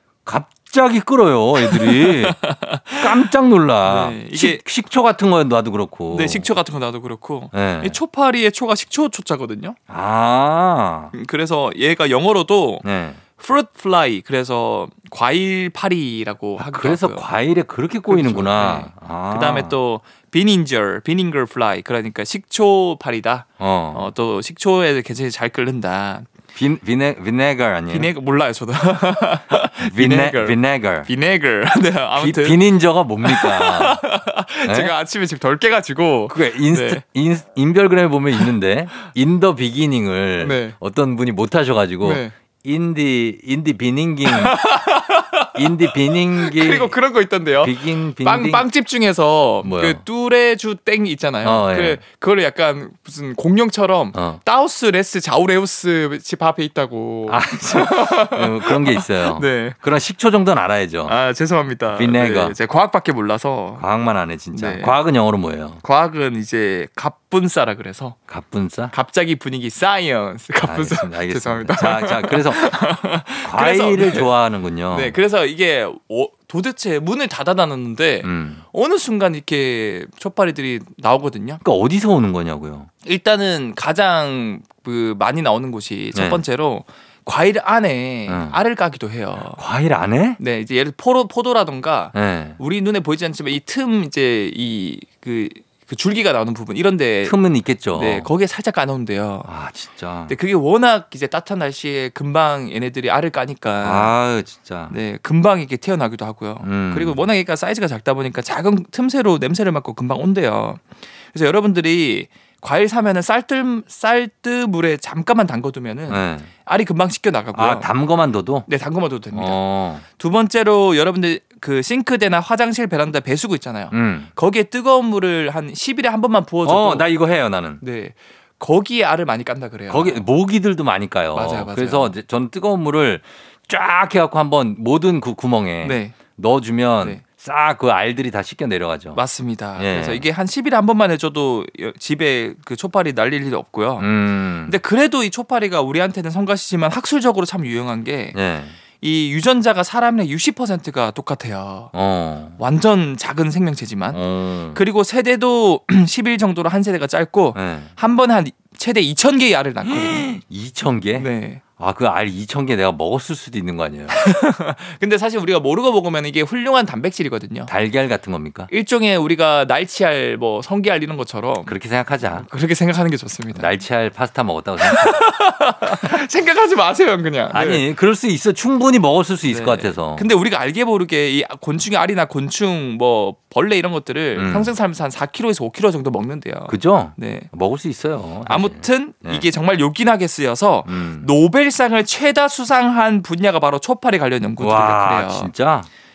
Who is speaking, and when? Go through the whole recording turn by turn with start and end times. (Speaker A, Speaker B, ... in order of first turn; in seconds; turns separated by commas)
Speaker A: 0.2-2.4, Speaker B: 1.6-3.3, Speaker A: 2.9-6.5, Speaker B: 3.8-4.6, Speaker B: 6.1-9.8, Speaker A: 7.5-8.0, Speaker A: 9.9-11.1, Speaker B: 11.1-12.8, Speaker A: 12.8-13.2, Speaker B: 13.4-17.2, Speaker A: 16.6-19.8, Speaker B: 18.1-26.3, Speaker A: 23.6-24.1, Speaker A: 26.5-28.1, Speaker B: 27.9-32.6, Speaker A: 29.8-31.1, Speaker A: 32.1-34.0, Speaker B: 33.2-37.0, Speaker A: 34.6-34.9, Speaker A: 36.3-44.5, Speaker B: 40.4-40.8, Speaker B: 42.0-42.3, Speaker B: 44.2-59.8, Speaker A: 45.5-46.9, Speaker A: 47.6-48.6, Speaker A: 49.6-50.0, Speaker A: 51.4-52.0, Speaker A: 54.1-54.4, Speaker A: 57.3-61.1, Speaker B: 61.0-63.8, Speaker A: 61.9-62.6, Speaker A: 63.8-65.8, Speaker B: 64.5-65.0, Speaker B: 65.8-68.2, Speaker A: 68.3-68.9, Speaker B: 68.9-74.3, Speaker A: 70.6-72.7, Speaker A: 73.4-75.2, Speaker B: 74.9-81.6, Speaker A: 78.2-78.6, Speaker A: 81.6-82.9, Speaker B: 83.0-89.6, Speaker A: 86.1-86.4, Speaker A: 88.3-88.6, Speaker A: 89.5-90.4, Speaker B: 90.4-97.3, Speaker A: 92.1-92.6, Speaker A: 97.2-98.3, Speaker B: 97.9-99.5, Speaker A: 99.5-100.3, Speaker B: 100.3-104.1, Speaker A: 103.8-105.0, Speaker B: 104.9-117.9, Speaker A: 106.6-107.2, Speaker A: 116.1-116.5, Speaker A: 117.5-118.7, Speaker B: 118.7-119.6, Speaker A: 119.3-120.0, Speaker B: 120.2-127.1, Speaker A: 123.9-124.3, Speaker A: 126.6-127.8, Speaker B: 127.8-130.2, Speaker A: 129.9-139.2, Speaker B: 131.3-132.1, Speaker B: 135.8-136.2, Speaker B: 139.1-144.1, Speaker A: 139.8-140.2, Speaker A: 144.0-144.8, Speaker B: 144.6-148.4, Speaker A: 148.3-148.8, Speaker B: 149.0-151.9, Speaker A: 151.9-152.6, Speaker B: 152.6-154.2, Speaker A: 154.1-154.8, Speaker B: 154.7-160.4, Speaker A: 157.5-157.9, Speaker A: 159.8-161.3, Speaker B: 161.1-161.6, Speaker A: 161.8-164.2, Speaker B: 164.1-167.7, Speaker A: 167.7-168.7, Speaker B: 168.7-171.7, Speaker A: 171.7-172.4, Speaker B: 172.4-173.7, Speaker A: 173.5-175.2, Speaker B: 174.8-177.8, Speaker A: 177.5-180.2, Speaker B: 179.5-187.5, Speaker A: 184.3-184.7, Speaker A: 186.7-189.4, Speaker B: 188.4-195.5, Speaker A: 190.8-191.3, Speaker A: 194.6-195.9